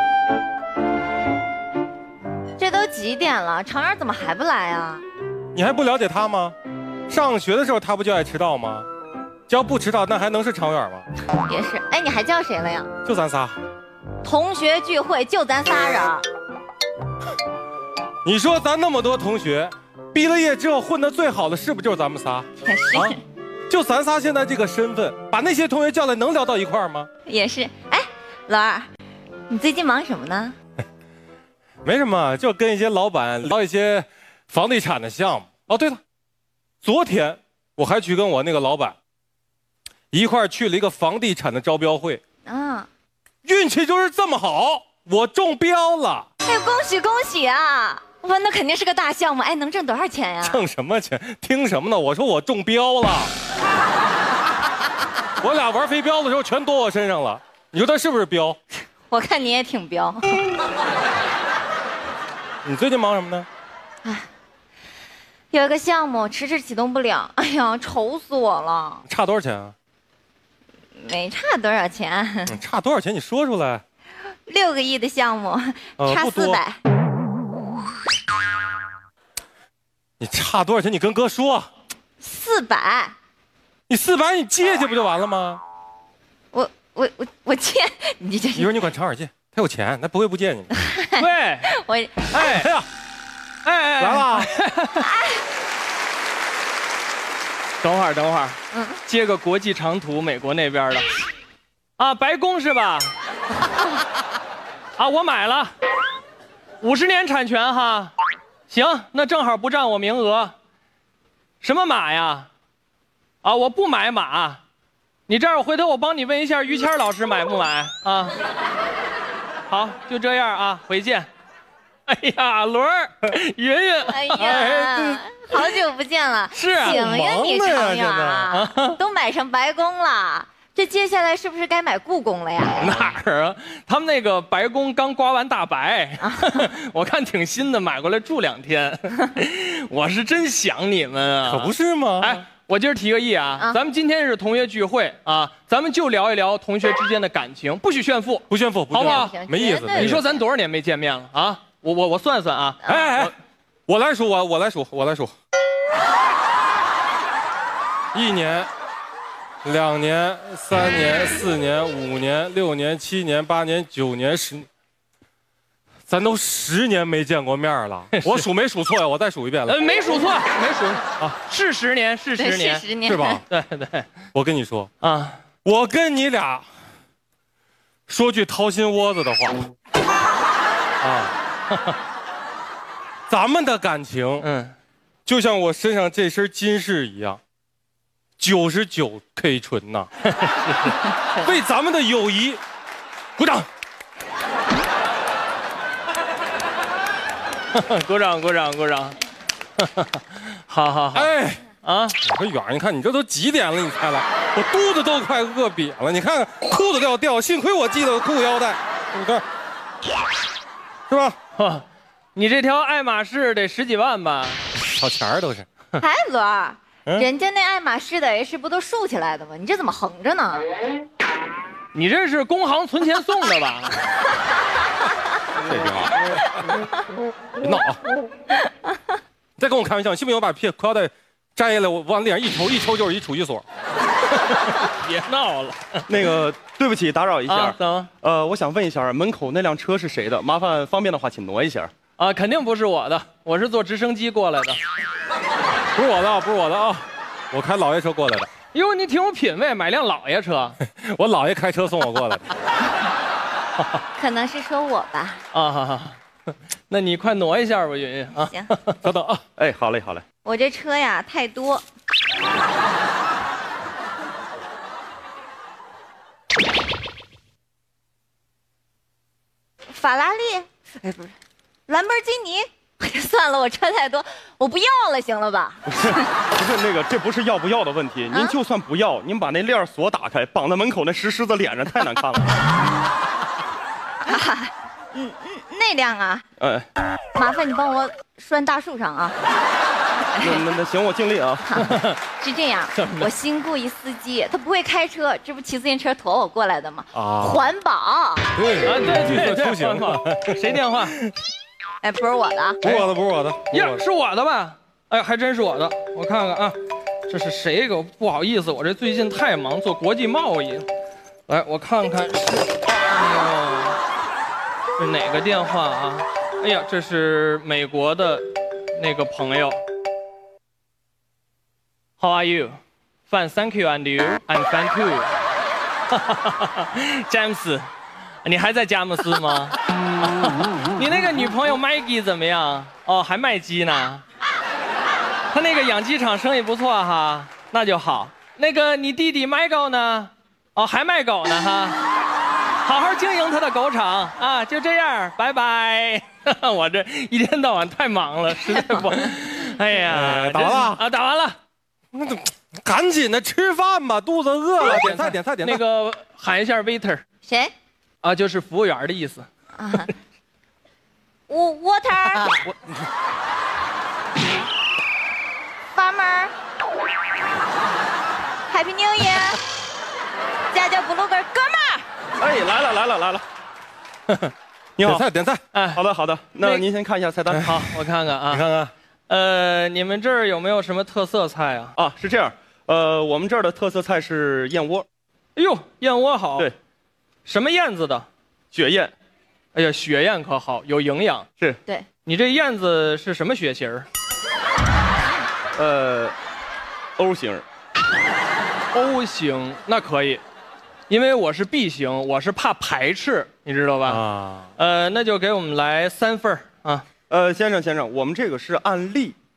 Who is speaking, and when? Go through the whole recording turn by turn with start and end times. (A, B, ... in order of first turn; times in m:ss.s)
0:02.6-0:05.0 A
0:05.5-0:06.6 B
0:07.1-0:08.8 B
0:09.5-0:11.0 B
0:11.4-0:12.9 A
0:13.0-0:13.5 B
0:14.2-0:16.2 A
0:18.2-0:23.2 B
0:22.6-0:23.2 A
0:23.7-0:27.1 B
0:27.2-0:28.9 A
0:29.5-0:30.5 A
0:31.8-0:36.0 B
0:36.8-0:39.0 B
0:40.1-0:42.2 B
0:42.4-0:42.9 A
0:43.4-0:46.2 B
0:46.4-0:50.6 A
0:50.4-0:53.3 B
0:55.4-0:58.6 B
0:59.1-1:00.4 A
1:02.6-1:03.5 B
1:05.5-1:09.0 A
1:09.1-1:09.7 B
1:11.0-1:12.6 A
1:12.5-1:13.8 B
1:14.4-1:16.8 A
1:16.0-1:16.6 B
1:20.2-1:21.7 B
1:22.2-1:23.1 A
1:23.9-1:25.6 B
1:26.5-1:28.8 A
1:28.5-1:30.7 B
1:30.7-1:32.3 A
1:31.2-1:31.7 C
1:32.3-1:32.7 C
1:32.4-1:32.8 B
1:33.6-1:35.1 C
1:34.0-1:34.5 B
1:35.0-1:35.4 A
1:37.8-1:41.2 C
1:38.7-1:39.0 A
1:42.0-1:43.1 C
1:45.0-1:45.7 C
1:46.8-1:48.1 C
1:48.7-1:50.5 C
1:51.6-1:52.5 C
1:53.4-1:54.6 C
1:55.3-1:58.4 C
1:59.7-2:01.3 C
2:02.1-2:05.2 C
2:04.1-2:13.0 A
2:06.5-2:07.0 C
2:06.8-2:08.5 B
2:08.5-2:09.0 C
2:12.8-2:29.3 C
2:16.2-2:16.6 A
2:21.5-2:22.4 B
2:28.5-2:30.2 B
2:28.9-2:30.3 A
2:29.9-2:33.3 C
2:32.8-2:33.3 B
2:33.9-2:35.3 B
2:38.1-2:38.7 B
2:39.6-2:44.7 B
2:46.1-2:49.8 B
2:48.2-2:48.4 C
2:49.7-2:52.8 C
2:52.4-2:53.4 A
2:53.0-2:53.4 B
2:53.4-2:54.1 C
2:54.3-2:54.9 B
2:55.0-2:55.4 C
2:55.6-2:56.6 B
2:58.1-2:59.7 B
3:01.0-3:01.3 B
3:03.3-3:04.5 B
3:04.4-3:04.7 C
3:05.2-3:07.4 B
3:08.4-3:10.1 B
3:10.3-3:11.0 C
3:11.4-3:12.6 B
3:13.4-3:13.7 B
3:17.7-3:19.2 C
3:19.8-3:22.2 C
3:21.1-3:21.7 B
3:22.2-3:29.4 B
3:31.1-3:31.4 B
3:31.6-3:34.6 C
3:34.8-3:35.7 B
3:36.0-3:40.7 A
3:41.9-3:44.1 C
3:45.7-3:46.0 B
3:47.6-3:48.0 B
3:49.6-3:53.6 B
3:54.5-3:56.2 C
3:56.1-4:01.9 D
3:57.4-3:58.1 C
4:02.2-4:04.8 C
4:05.9-4:08.5 B
4:08.7-4:10.8 C
4:10.8-4:12.5 B
4:14.1-4:15.4 A
4:15.5-4:16.2 C
4:16.9-4:19.0 C
4:18.4-4:18.7 A
4:19.0-4:19.4 B
4:19.6-4:20.2 D
4:20.4-4:21.8 A
4:29.9-4:31.3 A
4:31.9-4:36.3 A
4:35.9-4:42.6 D
4:44.2-4:46.4 A
4:46.6-4:46.9 D
4:47.3-4:49.4 A
4:50.3-4:50.6 A
4:50.4-4:51.8 D
4:51.7-4:58.5 A
4:51.8-4:52.2 C
4:53.0-4:53.3 C
4:57.1-4:57.7 B
4:58.5-5:01.3 B
4:58.8-5:01.2 C
5:02.0-5:02.8 A
5:02.8-5:04.0 B
5:03.7-5:06.8 C
5:07.3-5:10.9 C
5:11.5-5:14.0 C
5:15.0-5:19.8 C
5:22.2-5:22.8 C
5:23.3-5:25.3 C
5:26.1-5:27.9 C
5:28.4-5:34.2 C
5:35.5-5:42.0 C
5:42.8-5:51.6 C
5:48.6-5:49.0 A
5:50.0-5:51.0 B
5:52.1-5:55.8 B
5:54.8-5:57.2 C
5:57.4-5:57.7 A
5:58.2-5:59.5 C
5:59.8-6:00.1 A
6:01.5-6:02.7 A
6:05.9-6:06.5 A
6:08.7-6:09.6 A
6:10.7-6:12.0 A
6:12.4-6:13.4 D
6:15.0-6:15.2 D
6:15.0-6:15.6 B
6:15.7-6:16.0 C
6:15.9-6:17.7 D
6:16.6-6:16.8 C
6:17.5-6:18.6 C
6:17.5-6:17.8 B
6:18.5-6:18.9 B
6:19.3-6:22.0 C
6:22.0-6:25.0 D
6:25.6-6:26.7 C
6:27.4-6:28.3 C
6:28.7-6:29.1 D
6:29.7-6:31.5 C
6:32.2-6:34.1 C
6:35.7-6:36.3 D
6:37.2-6:37.6 D
6:38.9-6:40.4 C
6:41.1-6:44.2 C
6:44.0-6:44.7 B
6:44.8-6:47.0 C
6:47.3-6:49.4 D